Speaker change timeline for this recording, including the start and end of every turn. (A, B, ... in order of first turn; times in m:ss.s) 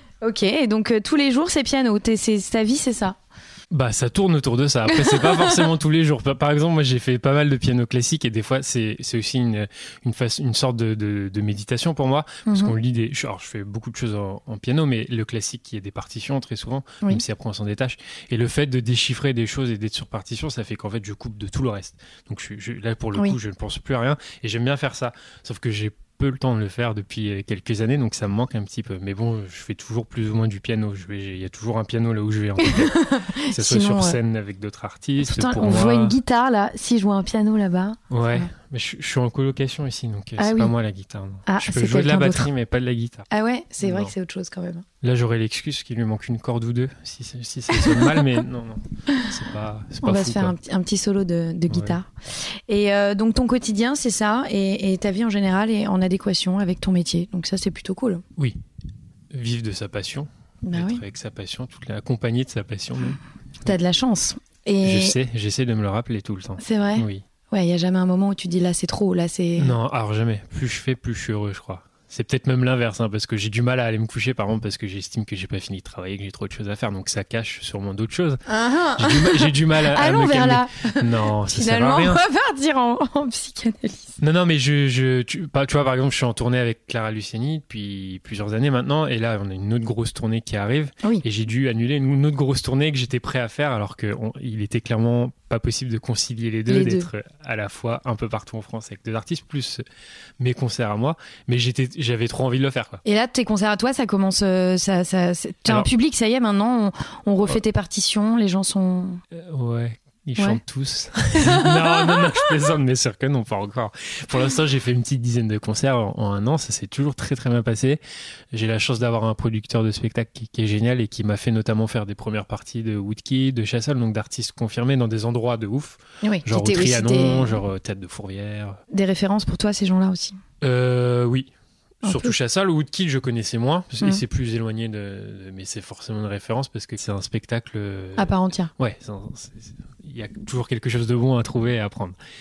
0:00.2-0:03.2 A
0:03.7-0:33.0 B
0:04.9-0:05.6 A
0:12.5-0:12.8 A
0:32.6-0:34.2 A
0:33.5-0:36.2 B
0:35.2-0:38.5 A
0:38.1-0:43.3 B
0:40.4-0:40.8 A
0:41.5-0:42.5 A
0:43.3-0:44.8 A
0:43.8-0:44.1 B
0:45.0-0:50.6 B
0:47.8-0:48.2 A
0:50.0-0:58.2 A
0:51.7-0:52.0 B
0:59.3-1:03.7 B
1:00.6-1:01.0 A
1:03.6-1:05.2 A
1:04.8-1:07.3 B
1:06.6-1:09.8 A
1:09.6-1:18.4 B
1:18.5-1:24.2 A
1:19.0-1:22.2 B
1:24.2-1:39.8 B
1:36.7-1:37.1 A
1:40.4-1:43.0 B
1:43.0-1:49.2 A
1:49.3-1:58.0 B
1:51.4-1:52.5 A
1:58.5-2:08.8 B
2:06.2-2:07.6 A
2:08.9-2:10.4 A
2:10.6-2:11.5 B
2:12.0-2:22.2 B
2:12.0-2:12.4 A
2:18.2-2:18.7 A